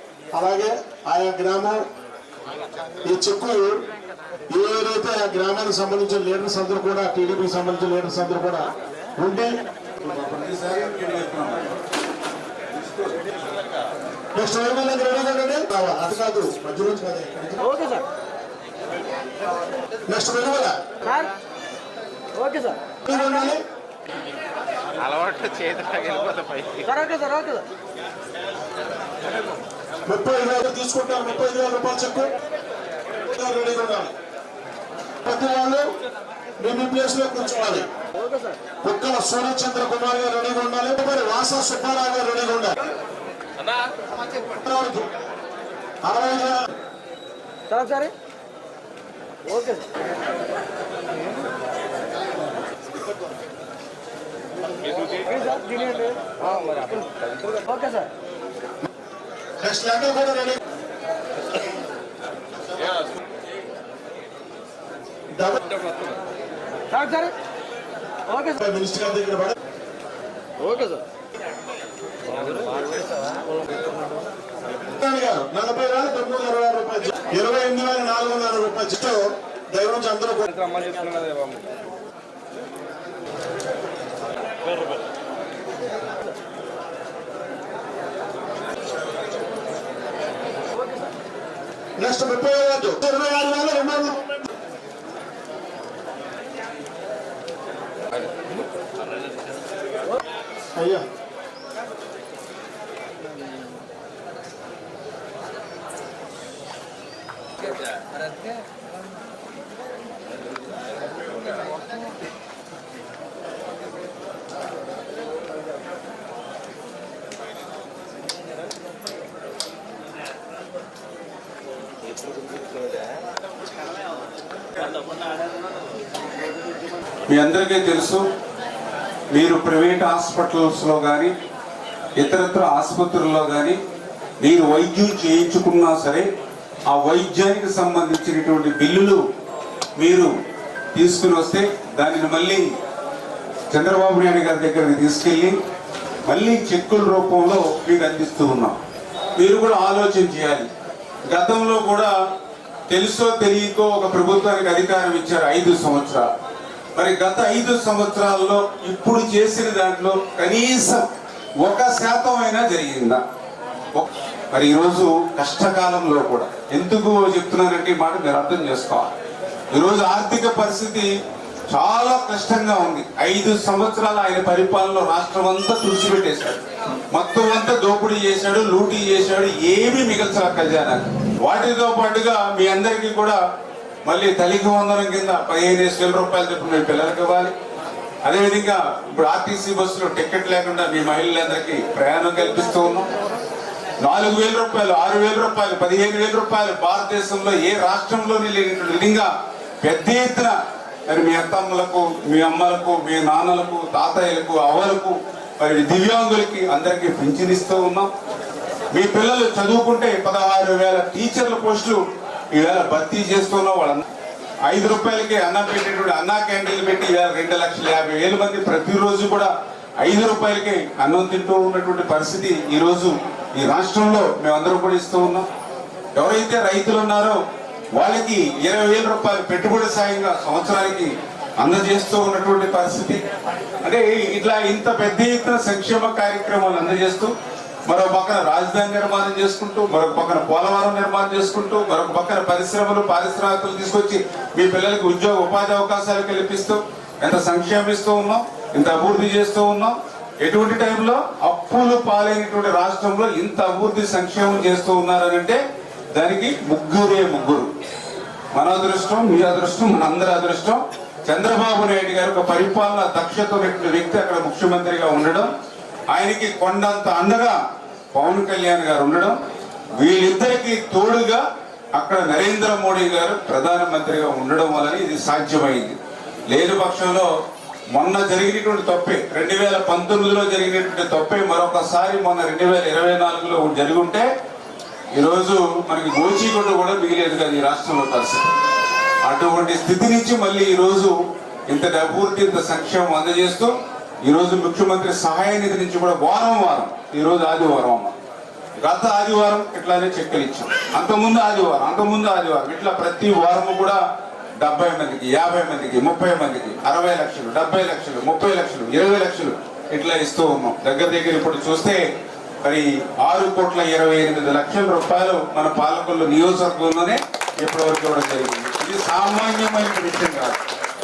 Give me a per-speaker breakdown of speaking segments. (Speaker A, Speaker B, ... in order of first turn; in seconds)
Speaker A: 0.3-1.8, 3.0-3.8, 4.5-9.6, 14.3-17.7, 20.1-20.8, 23.0-23.6, 30.1-32.3, 33.3-34.1, 35.2-35.9, 36.6-37.9, 38.8-42.8, 44.6-45.1, 46.0-46.6, 59.6-60.6, 65.4-65.6, 68.6-69.6, 74.9-80.7, 92.0-94.4, 100.8-101.0
Speaker B: 10.0-11.7, 127.3-128.3, 129.3-131.3, 132.2-133.8, 134.4-136.3, 136.9-139.2, 140.0-140.3, 140.9-142.7, 143.7-145.6, 146.3-148.8, 149.4-150.7, 151.3-152.1, 152.9-156.3, 157.0-161.1, 161.6-163.2, 163.9-169.1, 169.7-171.1, 171.7-183.4, 184.1-187.5, 188.2-193.1, 194.0-199.3, 199.8-200.6, 201.1-208.1, 208.9-214.1, 214.7-225.5, 226.2-227.4, 227.9-233.2, 233.8-237.3, 237.9-255.6, 256.1-257.7, 258.5-265.5, 266.1-267.6, 268.1-269.4, 269.9-271.4, 271.9-276.0, 276.5-277.3, 277.9-284.3, 285.1-288.5, 289.2-291.2, 291.7-298.1, 298.8-304.0, 304.6-312.0, 312.6-320.6
Speaker C: 17.7-18.0, 22.4-22.8, 26.9-27.6, 38.2-38.5, 47.7-48.1, 49.5-49.8, 55.2-58.1, 66.9-67.3, 70.6-71.0, 80.8-81.3
Speaker D: 25.0-26.9